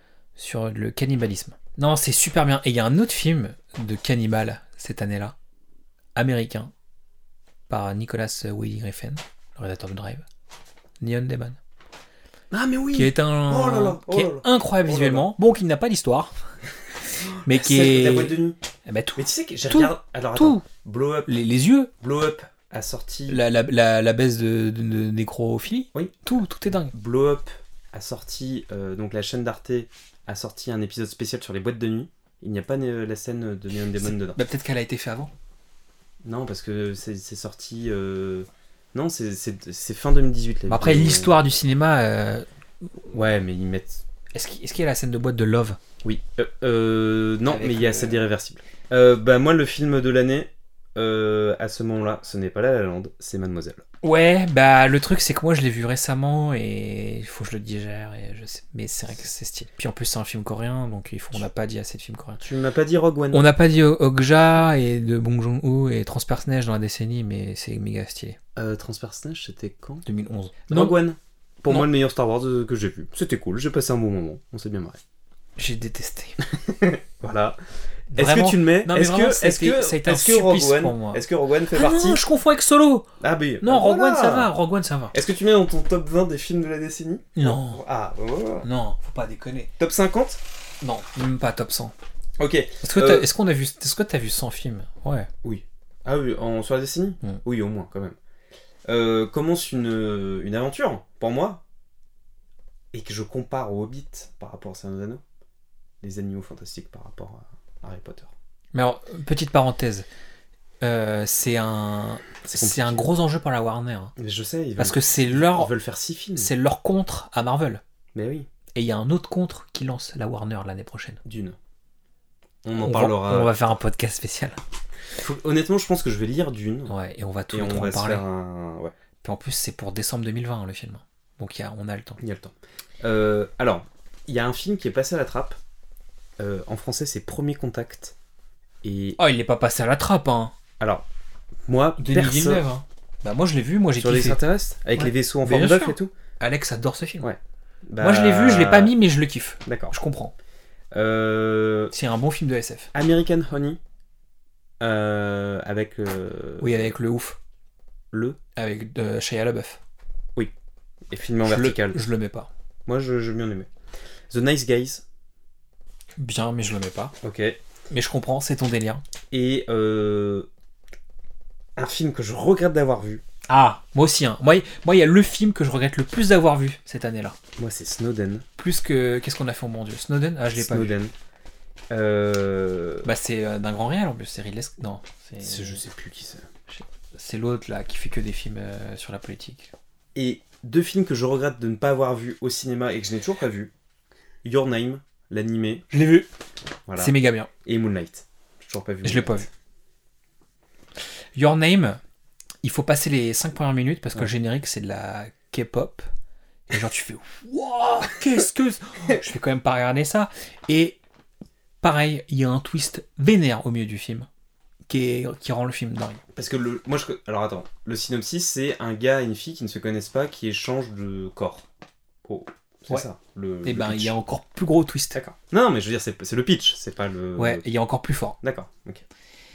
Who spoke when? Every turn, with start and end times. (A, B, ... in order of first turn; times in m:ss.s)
0:00.4-0:05.3 A
0:06.1-0:06.7 A
0:07.7-0:10.2 A
0:11.0-0:11.6 A
0:12.5-0:15.3 B
0:12.9-0:16.6 A
0:17.2-0:18.6 B
0:17.2-0:20.6 A
0:19.2-0:21.4 B
0:21.3-0:21.9 A
0:22.0-0:23.4 B
0:23.3-0:26.9 A
0:26.9-0:34.4 B
0:34.0-0:35.3 A
0:36.2-0:41.4 B
0:40.7-0:42.4 A
0:43.1-0:44.0 B
0:44.3-0:45.8 A
0:46.0-0:53.8 B
0:47.4-0:48.2 A
0:54.0-1:02.4 A
1:02.4-1:03.5 B
1:03.3-1:08.4 A
1:08.6-1:10.0 B
1:10.0-1:11.0 A
1:10.7-1:15.0 B
1:15.6-1:16.4 A
1:16.4-1:17.6 B
1:18.1-1:23.1 A
1:18.1-1:22.2 B
1:23.2-1:24.5 B
1:23.6-1:25.2 A
1:25.1-1:28.7 B
1:27.4-1:27.8 A
1:28.6-1:29.7 A
1:29.8-1:30.4 B
1:30.8-1:31.9 A
1:32.4-1:33.3 B
1:32.8-1:35.3 A
1:35.4-1:38.2 B
1:38.9-1:41.6 B
1:42.9-1:45.2 B
1:46.0-1:48.3 B
1:48.7-1:50.1 A
1:50.8-1:54.1 A
1:52.5-1:53.0 B
1:54.2-1:56.5 B
1:54.8-1:55.7 A
1:56.4-1:57.8 A
1:58.1-1:58.5 B
1:58.7-2:01.2 A
2:01.2-2:01.6 B
2:02.6-2:03.5 B
2:02.8-2:04.6 A
2:05.2-2:06.9 B
2:06.9-2:08.2 A
2:07.5-2:08.9 B
2:09.2-2:12.2 A
2:12.2-2:15.6 B
2:16.4-2:18.1 B
2:18.8-2:19.2 B
2:19.2-2:20.5 A
2:20.8-2:21.0 B
2:21.7-2:22.7 B
2:22.0-2:24.4 A
2:24.0-2:26.1 B
2:24.9-2:27.3 A
2:27.2-2:29.0 B
2:28.0-2:30.3 A
2:29.6-2:29.9 B
2:30.9-2:31.9 B
2:31.9-2:32.9 A
2:32.9-2:33.8 B
2:34.8-2:36.9 B
2:36.6-2:37.4 A
2:38.1-2:38.4 B
2:38.6-2:39.8 A
2:41.1-2:42.0 B
2:41.4-2:42.5 A
2:42.8-2:43.7 B
2:44.3-2:45.0 B
2:46.2-2:47.1 A
2:47.2-2:47.6 B
2:47.9-2:49.0 A
2:49.3-2:50.5 B
2:51.8-2:53.2 B
2:53.5-2:57.4 A
2:57.6-2:58.4 B
2:58.6-3:00.9 A
3:00.5-3:01.1 B
3:01.9-3:03.1 B
3:03.0-3:05.8 A
3:05.4-3:06.4 B
3:06.7-3:09.7 A
3:10.1-3:13.7 B
3:14.4-3:15.8 B
3:15.9-3:16.3 A
3:16.9-3:19.4 B
3:17.0-3:17.5 A
3:19.0-3:19.5 A
3:21.3-3:22.0 A
3:22.6-3:26.1 A
3:26.7-3:31.0 A
3:31.8-3:34.3 A
3:34.9-3:36.2 A
3:36.3-3:41.7 B
3:42.2-3:44.2 B
3:43.6-3:45.2 A
3:45.1-3:47.7 B
3:47.4-3:48.4 A
3:48.4-3:49.0 B